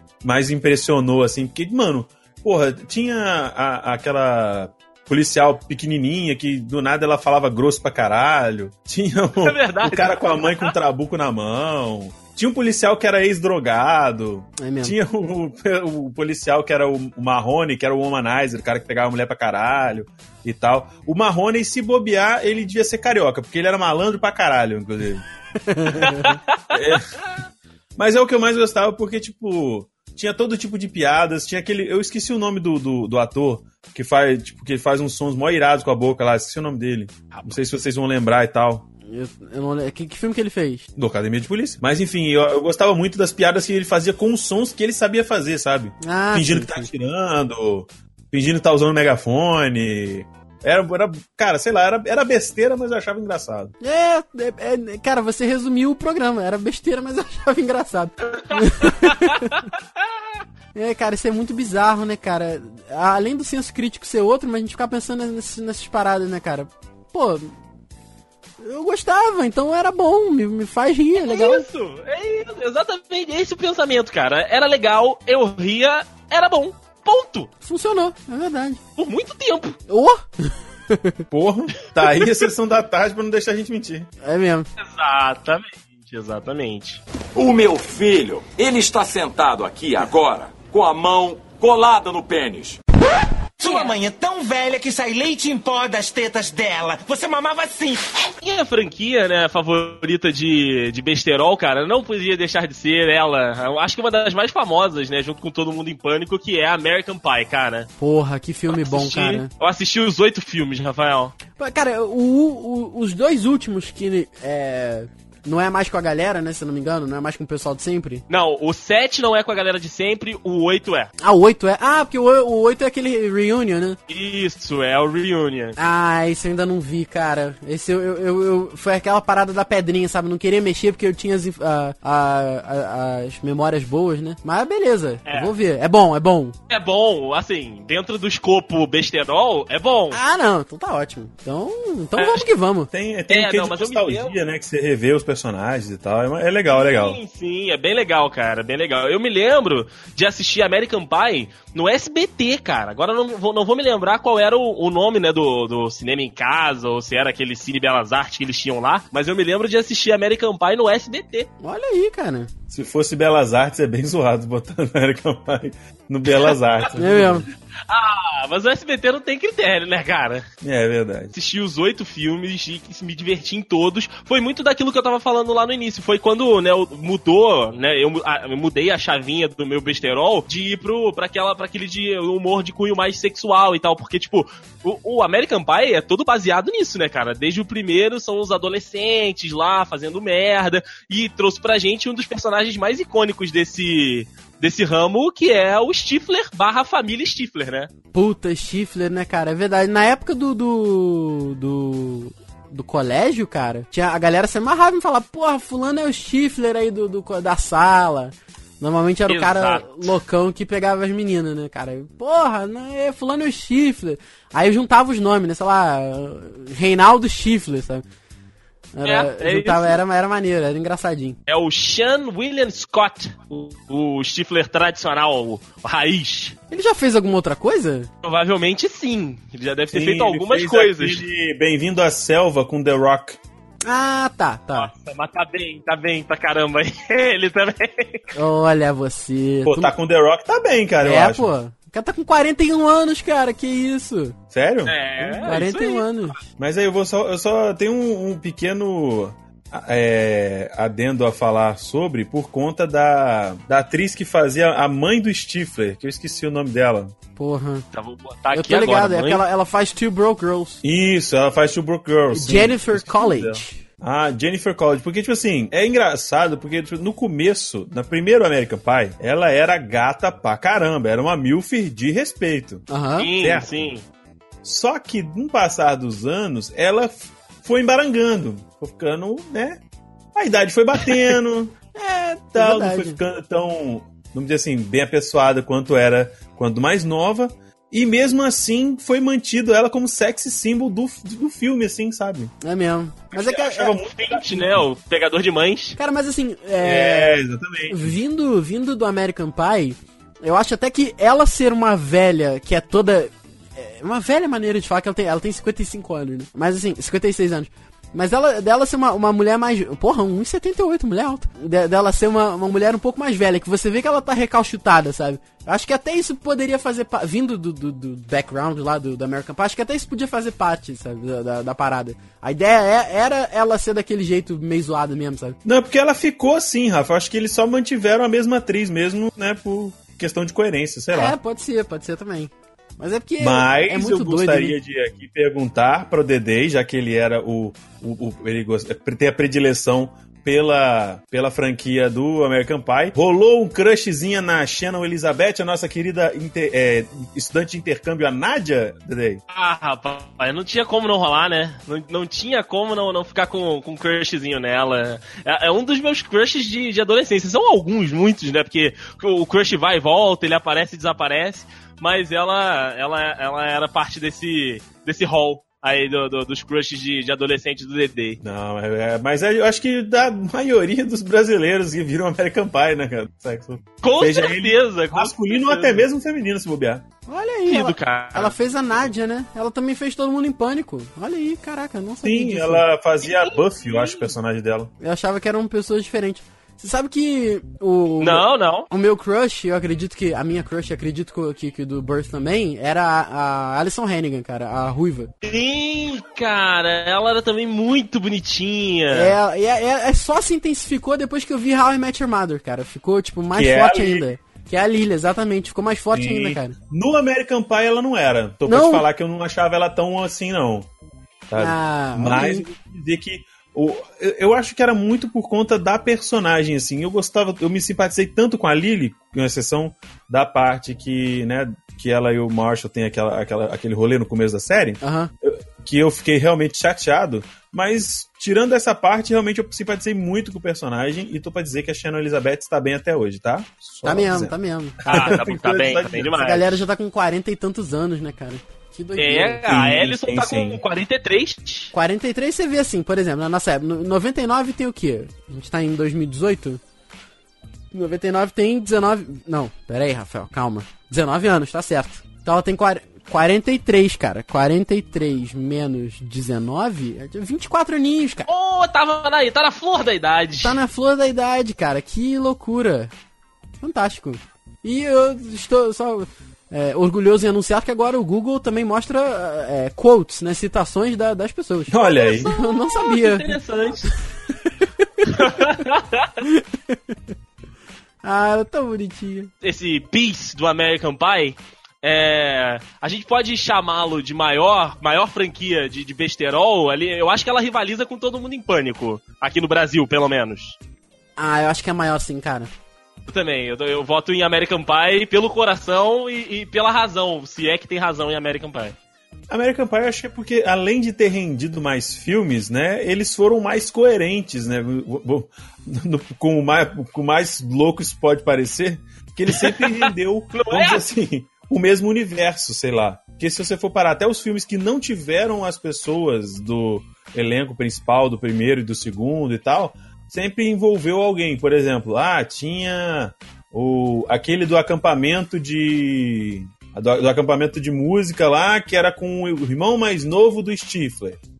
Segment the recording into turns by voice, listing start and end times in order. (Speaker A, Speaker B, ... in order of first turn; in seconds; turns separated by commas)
Speaker A: 0.2-25.2, Speaker B: 9.4-10.7, Speaker C: 14.6-14.9, Speaker C: 25.6-26.4, Speaker B: 26.1-26.8, Speaker A: 26.7-27.2, Speaker A: 28.0-38.9, Speaker C: 39.1-40.9, Speaker A: 41.0-53.7, Speaker C: 46.0-46.9, Speaker C: 53.8-59.6, Speaker B: 58.5-59.6, Speaker C: 60.7-67.5, Speaker C: 68.6-71.6, Speaker B: 71.1-77.5, Speaker C: 77.6-78.8, Speaker B: 79.0-79.8, Speaker C: 79.9-81.2, Speaker A: 81.3-84.1, Speaker C: 84.2-84.7, Speaker B: 84.8-87.0, Speaker D: 87.3-92.8, Speaker E: 93.6-98.3, Speaker B: 93.6-93.9, Speaker B: 98.4-107.9, Speaker C: 108.0-109.5, Speaker B: 108.7-111.3, Speaker C: 111.6-118.2, Speaker B: 118.3-121.1, Speaker C: 121.2-124.0, Speaker B: 124.1-125.8, Speaker C: 125.8-136.5, Speaker B: 136.7-140.2, Speaker C: 140.1-142.9, Speaker B: 142.2-142.5, Speaker A: 142.9-147.2, Speaker B: 143.3-144.3, Speaker B: 146.7-161.5, Speaker C: 161.6-162.5, Speaker A: 162.7-167.5, Speaker C: 166.9-167.5, Speaker B: 167.9-170.4, Speaker A: 170.6-171.3, Speaker B: 171.3-197.9, Speaker C: 198.1-218.0, Speaker B: 209.3-210.0, Speaker C: 218.9-221.4, Speaker B: 219.0-220.0, Speaker B: 221.5-226.6, Speaker C: 226.7-228.1, Speaker B: 228.2-231.2, Speaker A: 229.9-233.4, Speaker C: 233.8-234.9, Speaker B: 234.7-238.3, Speaker C: 238.3-239.9, Speaker A: 239.6-241.5, Speaker C: 241.0-244.3, Speaker A: 244.5-245.6, Speaker B: 244.8-246.3, Speaker C: 245.4-246.4, Speaker A: 246.6-257.1, Speaker C: 257.4-257.9, Speaker B: 257.9-259.4, Speaker C: 258.5-260.8, Speaker A: 260.8-272.8, Speaker C: 262.3-263.8, Speaker C: 272.9-273.3, Speaker B: 273.2-274.0, Speaker A: 273.4-273.9, Speaker A: 274.6-279.8, Speaker A: 280.3-281.8, Speaker C: 281.9-283.2, Speaker A: 282.5-292.5, Speaker C: 292.6-293.9, Speaker A: 293.3-294.8, Speaker B: 294.1-296.0, Speaker C: 296.0-325.6, Speaker A: 296.8-298.2, Speaker A: 325.6-331.4, Speaker C: 331.1-334.8, Speaker A: 333.4-349.4, Speaker B: 349.5-368.4, Speaker A: 368.4-377.0, Speaker B: 374.0-376.1, Speaker C: 377.3-382.8, Speaker B: 377.7-378.6, Speaker A: 382.2-384.9, Speaker B: 383.2-384.3, Speaker C: 385.0-395.3, Speaker B: 388.2-388.9, Speaker B: 395.4-399.4, Speaker C: 399.1-406.7, Speaker A: 403.5-404.3, Speaker A: 406.1-410.9, Speaker C: 408.6-409.1, Speaker A: 411.5-436.3, Speaker C: 411.6-412.6, Speaker C: 425.0-425.3, Speaker C: 434.0-435.3, Speaker B: 435.1-436.8, Speaker C: 436.4-439.7, Speaker B: 439.1-441.9, Speaker A: 439.7-440.8, Speaker C: 441.9-446.8, Speaker C: 447.9-458.5, Speaker B: 458.5-460.8, Speaker C: 460.6-463.1, Speaker C: 463.8-473.6, Speaker A: 471.9-472.5, Speaker B: 472.2-474.1, Speaker C: 475.0-475.5, Speaker B: 475.3-476.3, Speaker C: 476.4-477.1, Speaker C: 478.2-479.5, Speaker B: 479.6-490.8, Speaker C: 491.4-492.7, Speaker B: 493.3-498.9, Speaker A: 499.5-531.4, Speaker B: 509.6-511.0